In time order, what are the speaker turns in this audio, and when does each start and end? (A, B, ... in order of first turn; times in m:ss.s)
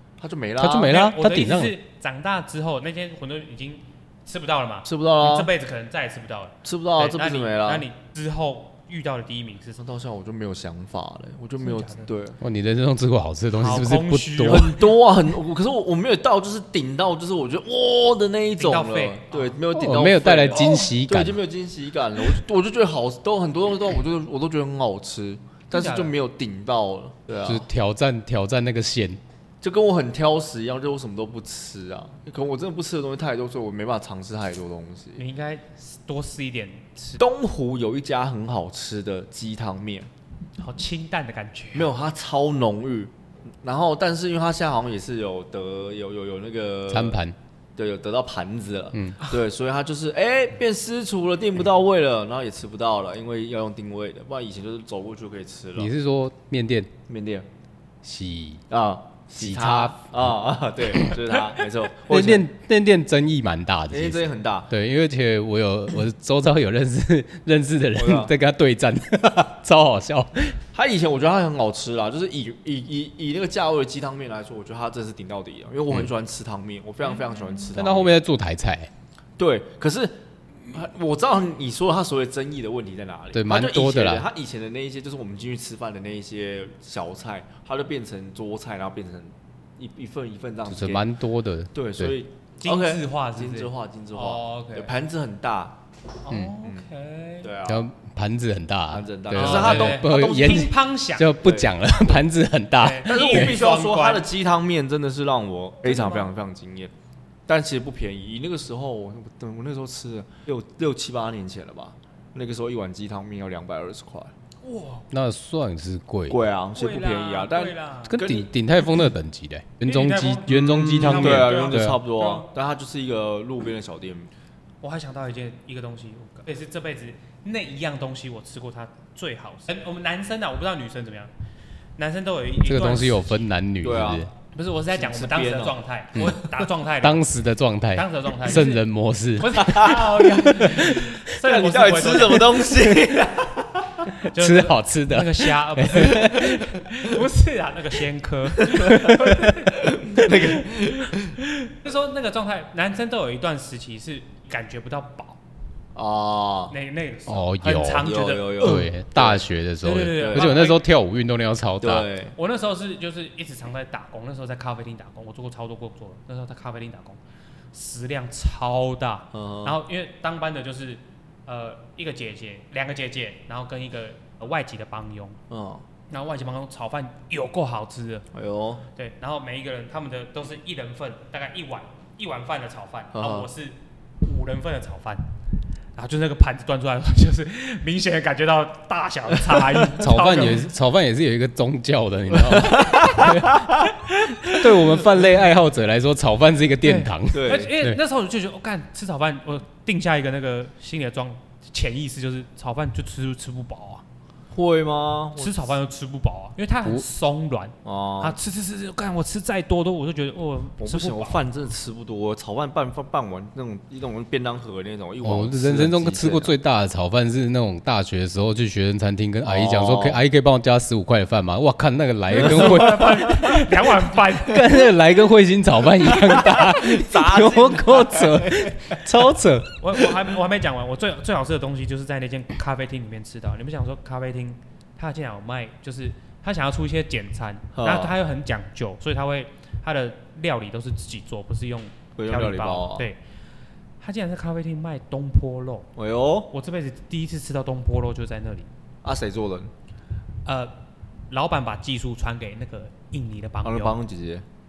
0:00.2-0:00.9 A
0:00.6-0:01.8 B
0:00.8-0:09.8 C
0:04.8-0:05.5 A
0:06.6-0:07.8 A
0:09.8-0:12.4 A
0:11.6-0:12.1 C
0:12.4-0:14.8 B
0:13.6-0:14.8 C
0:14.5-0:27.6 A
0:18.6-0:19.6 C
0:19.7-0:21.4 B
0:25.7-0:26.1 C
0:27.4-0:29.2 B
0:29.6-0:35.2 A
0:35.2-0:37.2 C
0:37.2-0:40.1 A
0:40.6-0:41.9 C
0:41.7-0:43.1 A
0:43.6-0:47.2 A
0:46.9-0:47.4 B
0:47.8-0:55.9 A
0:48.9-0:49.2 B
0:55.8-0:56.9 B
0:57.1-0:57.4 A
0:58.0-0:58.6 B
0:58.7-1:02.4 A
0:59.4-1:00.3 B
1:02.1-1:10.6 B
1:03.9-1:04.7 A
1:08.0-1:08.3 A
1:10.7-1:18.2 A
1:17.7-1:18.9 B
1:19.4-1:20.1 A
1:20.7-1:31.0 A
1:23.3-1:24.2 B
1:30.7-1:32.1 B
1:31.7-1:35.8 A
1:32.6-1:34.9 C
1:36.2-1:37.5 C
1:36.3-1:36.5 B
1:37.4-1:37.9 A
1:37.7-1:43.6 B
1:38.9-1:40.7 A
1:39.3-1:41.3 C
1:41.4-1:42.0 A
1:42.8-1:44.2 C
1:43.0-1:46.9 A
1:45.8-1:46.3 C
1:47.5-1:54.3 A
1:54.6-1:55.0 C
1:55.1-1:56.4 B
1:56.3-1:58.5 A
1:56.8-1:58.2 C
1:58.1-2:02.0 B
1:59.8-2:02.5 C
2:00.5-2:04.3 A
2:04.8-2:11.3 C
2:12.0-2:13.4 C
2:12.6-2:14.3 B
2:13.8-2:14.3 A
2:14.5-2:17.2 C
2:14.9-2:15.8 A
2:16.1-2:16.4 B
2:17.0-2:21.1 B
2:17.9-2:18.8 C
2:19.4-2:22.7 C
2:19.6-2:24.1 A
2:24.2-2:30.3 C
2:24.3-2:26.7 B
2:28.6-2:31.4 A
2:28.9-2:29.5 B
2:31.4-2:35.4 C
2:35.9-2:36.7 A
2:36.7-2:38.8 C
2:37.3-2:38.1 B
2:38.0-2:39.5 A
2:38.6-2:42.1 B
2:39.8-2:40.8 C
2:40.2-2:40.5 A
2:41.8-2:42.3 A
2:42.4-2:47.2 C
2:47.7-2:55.4 C
2:49.3-2:49.8 A
2:55.5-2:55.8 A
2:56.1-2:58.2 C
2:58.3-2:58.8 A
2:59.0-3:05.2 C
3:03.1-3:03.5 A
3:05.9-3:10.7 C
3:10.0-3:13.7 B
3:12.4-3:13.9 A
3:14.0-3:14.6 C
3:14.4-3:18.0 B
3:16.8-3:24.0 C
3:17.3-3:17.7 A
3:24.5-3:25.7 A
3:25.4-3:31.4 C
3:27.8-3:28.4 A
3:30.8-3:36.5 A
3:35.2-3:49.8 B
3:39.4-3:40.2 A
3:42.3-3:44.8 C
3:42.4-3:43.1 A
3:46.1-3:49.0 A
3:49.8-4:03.2 C
3:57.7-3:58.1 A
4:02.2-4:03.1 A
4:04.0-4:05.9 C
4:06.0-4:06.5 A
4:06.5-4:08.7 C
4:09.0-4:09.7 A
4:10.4-4:10.7 C
4:11.3-4:14.0 C
4:13.6-4:14.4 A